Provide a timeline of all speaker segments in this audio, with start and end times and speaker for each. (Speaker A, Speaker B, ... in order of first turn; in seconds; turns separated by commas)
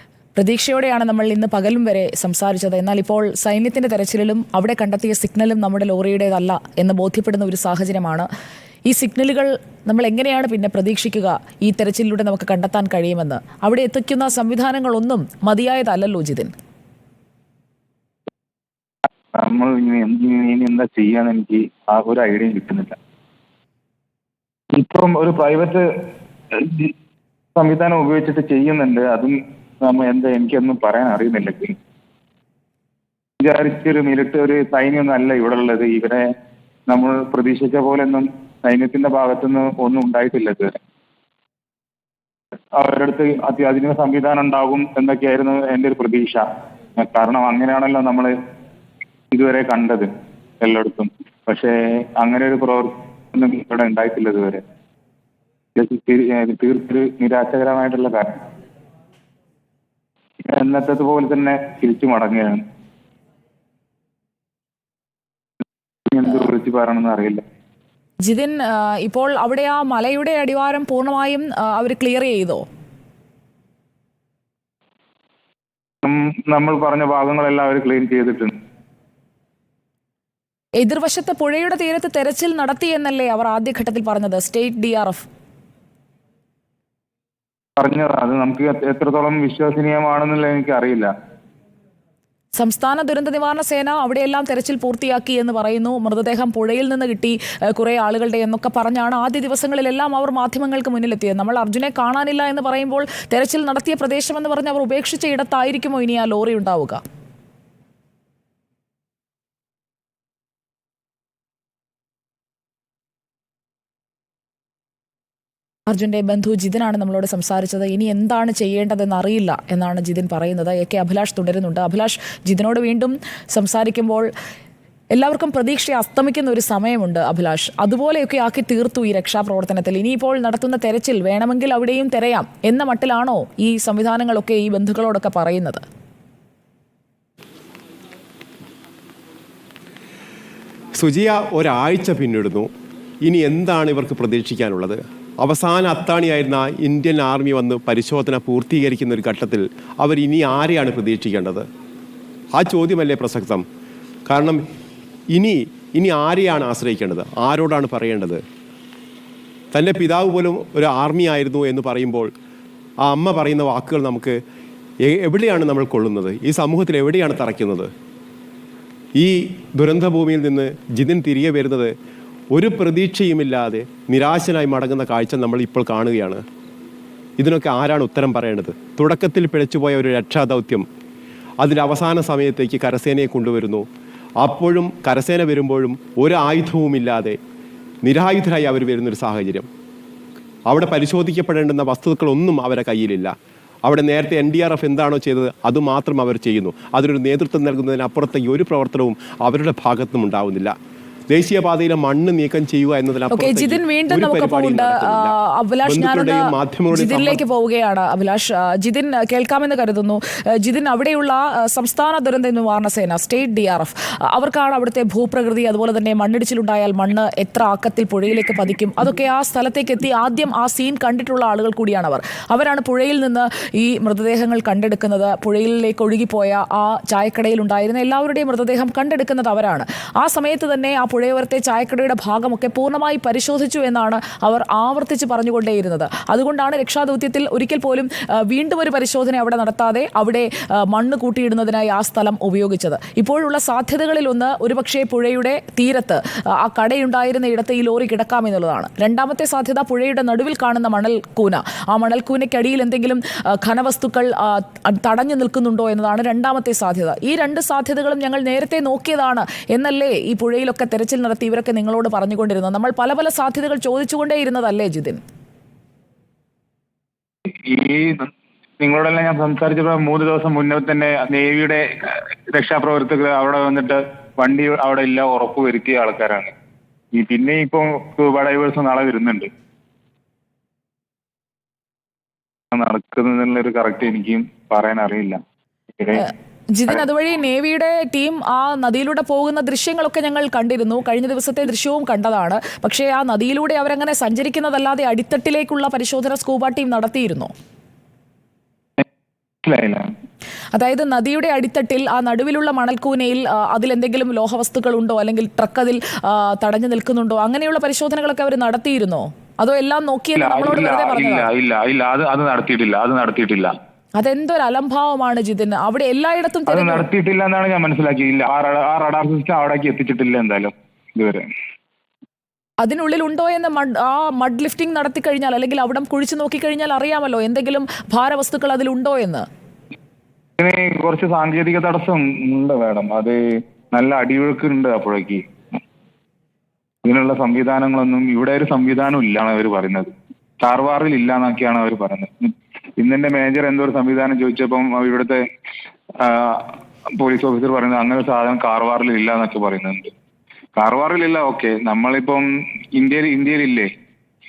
Speaker A: 0.3-8.3, Speaker A: 8.9-16.5, Speaker B: 19.3-23.0, Speaker B: 24.7-25.9, Speaker B: 26.5-26.9, Speaker B: 27.6-31.7, Speaker B: 33.4-36.2, Speaker B: 36.9-40.8, Speaker B: 42.7-48.3, Speaker B: 49.3-54.6, Speaker B: 55.8-58.4, Speaker B: 60.4-62.6, Speaker B: 66.1-67.4, Speaker A: 68.2-72.6, Speaker B: 76.0-78.6, Speaker A: 80.8-85.2, Speaker B: 87.8-91.1, Speaker A: 92.5-107.0, Speaker A: 115.9-124.3, Speaker A: 125.1-135.8, Speaker C: 141.0-142.7, Speaker C: 143.2-151.6, Speaker C: 152.5-153.6, Speaker C: 154.3-154.6, Speaker C: 155.3-158.4, Speaker C: 159.7-162.3, Speaker C: 163.0-164.4, Speaker C: 165.0-167.9, Speaker C: 169.2-171.9, Speaker C: 172.5-176.4, Speaker C: 177.4-180.8, Speaker C: 181.6-183.8, Speaker C: 184.4-187.4, Speaker C: 188.0-189.7, Speaker C: 190.7-193.3, Speaker C: 193.8-200.7, Speaker C: 201.3-205.3, Speaker A: 203.3-265.2, Speaker C: 205.8-207.4, Speaker B: 267.6-276.5, Speaker B: 277.1-279.5, Speaker B: 282.7-285.4, Speaker B: 286.0-286.2, Speaker A: 286.1-297.5, Speaker B: 299.6-300.1, Speaker A: 300.7-311.5, Speaker B: 310.4-313.7, Speaker A: 314.2-317.1, Speaker B: 316.7-321.5, Speaker A: 322.8-329.4, Speaker B: 330.6-333.4, Speaker B: 333.9-335.4, Speaker B: 337.0-345.4, Speaker B: 346.2-350.1, Speaker B: 350.8-353.9